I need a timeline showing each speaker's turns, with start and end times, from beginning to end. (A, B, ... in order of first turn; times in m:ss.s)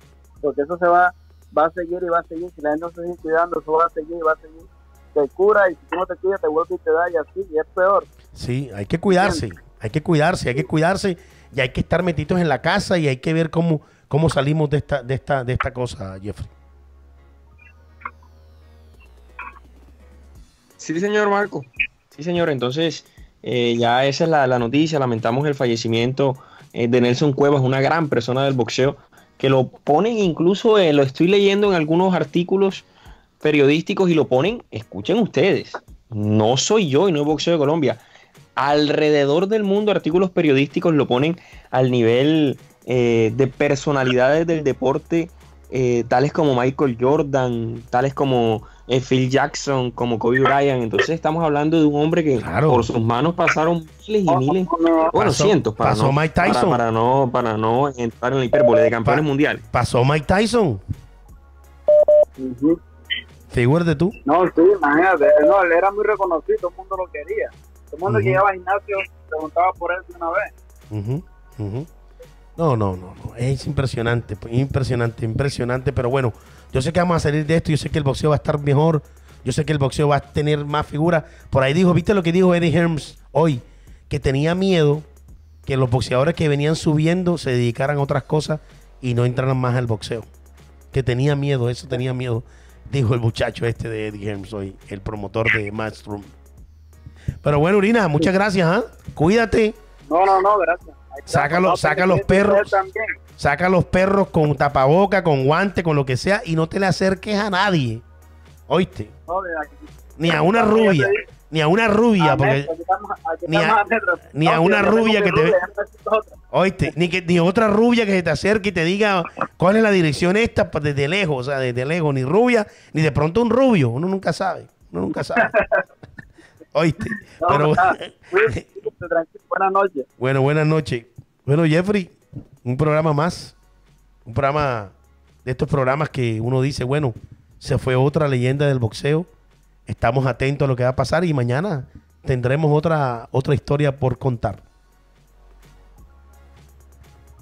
0:00.4-0:08.1 A
0:08.3-0:16.5 B
0:09.1-0:09.4 A
0:20.8-0:32.8 C
0:33.4-0:38.0 C
0:38.6-0:59.6 C
0:52.4-0:52.9 B
0:54.3-0:55.1 A
0:55.2-0:56.8 B
0:59.0-1:00.8 B
1:02.4-1:02.8 A
1:03.5-1:04.2 B
1:04.2-1:10.5 A
1:08.1-1:08.4 B
1:10.9-1:11.9 B
1:12.6-1:25.0 B
1:25.6-1:30.3 B
1:30.9-1:36.3 B
1:37.4-1:39.8 B
1:40.1-1:43.1 A
1:41.3-1:42.7 B
1:43.4-1:48.0 B
1:48.7-1:49.1 B
1:49.3-1:51.2 A
1:50.2-1:52.7 B
1:52.2-1:56.3 A
1:53.5-1:53.8 B
1:54.3-1:55.5 B
1:56.5-2:05.5 B
2:05.3-2:05.8 A
2:06.7-2:08.6 B
2:07.4-2:10.1 A
2:10.2-2:13.5 B
2:14.2-2:14.9 B
2:15.4-2:19.3 B
2:19.9-2:24.6 B